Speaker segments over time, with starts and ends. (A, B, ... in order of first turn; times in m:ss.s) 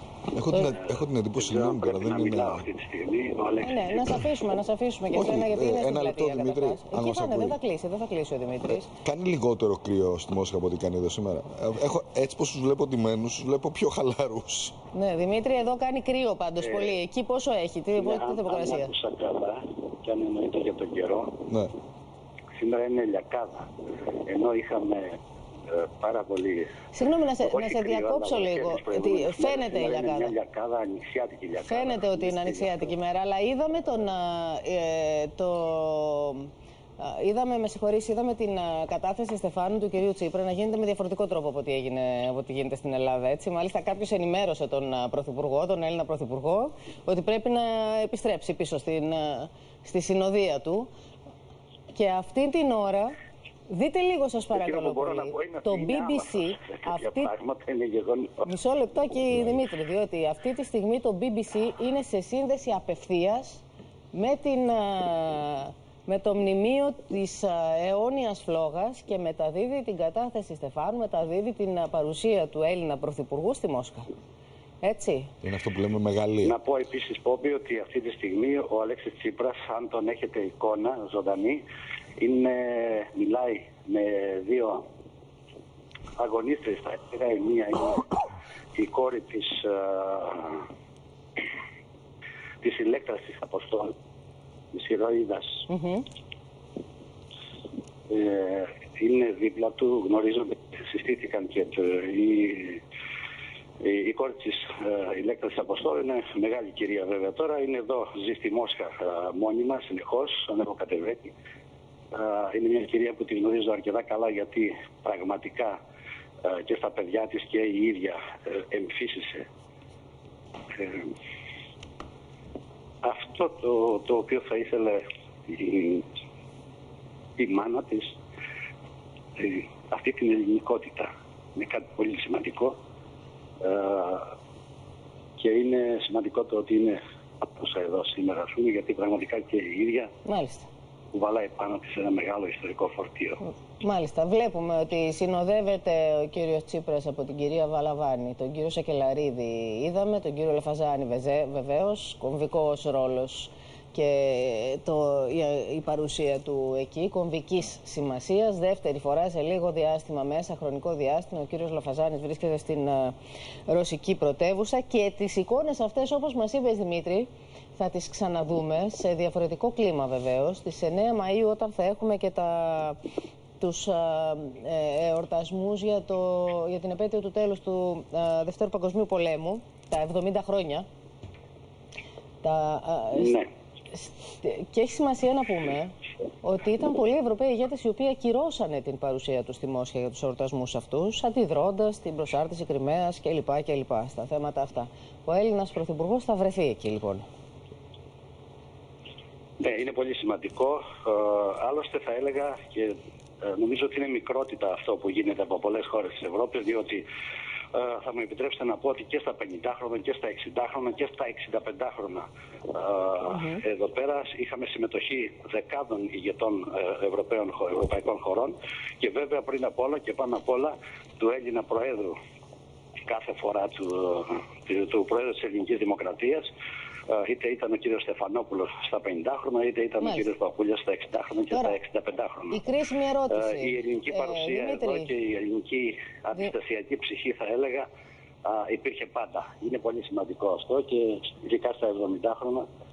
0:00.3-0:02.6 A
0:00.8-0:04.3 B
0:03.6-0:08.9 C
0:05.1-0:07.6 A
0:08.8-0:14.8 A
0:14.9-0:18.9 C
0:16.6-0:17.0 B
0:18.0-0:21.5 B
0:22.6-0:23.7 B
0:24.3-0:25.2 B
0:25.7-0:26.8 B
0:26.9-0:30.3 C
0:27.4-0:32.9 B
0:31.7-0:50.9 C
0:51.9-0:53.1 C
0:53.7-0:57.3 C
0:54.5-0:58.5 B
0:58.4-1:14.1 C
1:14.8-1:15.3 C
1:15.4-1:16.6 A
1:16.4-1:21.6 B
1:22.2-1:24.8 B
1:26.2-1:28.1 B
1:28.8-1:30.7 B
1:32.6-1:33.9 B
1:34.7-1:35.7 B
1:35.7-1:36.0 C
1:38.1-1:42.8 B
1:43.8-1:51.3 B
1:52.1-1:55.8 B
1:56.4-1:59.5 B
2:00.7-2:01.1 B
2:03.0-2:06.0 B
2:07.4-2:08.2 B
2:09.4-2:12.8 B
2:13.6-2:14.3 B
2:15.4-2:20.1 B
2:20.2-2:20.7 C
2:21.1-2:23.4 B
2:23.8-2:43.2 C
2:43.7-2:53.0 C
2:53.6-3:00.9 C
3:02.4-3:03.4 C
3:03.1-3:03.5 B
3:03.9-3:17.2 C
3:19.6-3:27.0 B
3:27.7-3:42.2 B
3:33.3-3:33.6 C
3:43.1-3:46.5 B
3:47.1-3:52.6 B
3:51.5-3:51.8 C
3:52.5-3:55.1 C
3:53.3-3:57.9 B
3:58.4-4:02.7 B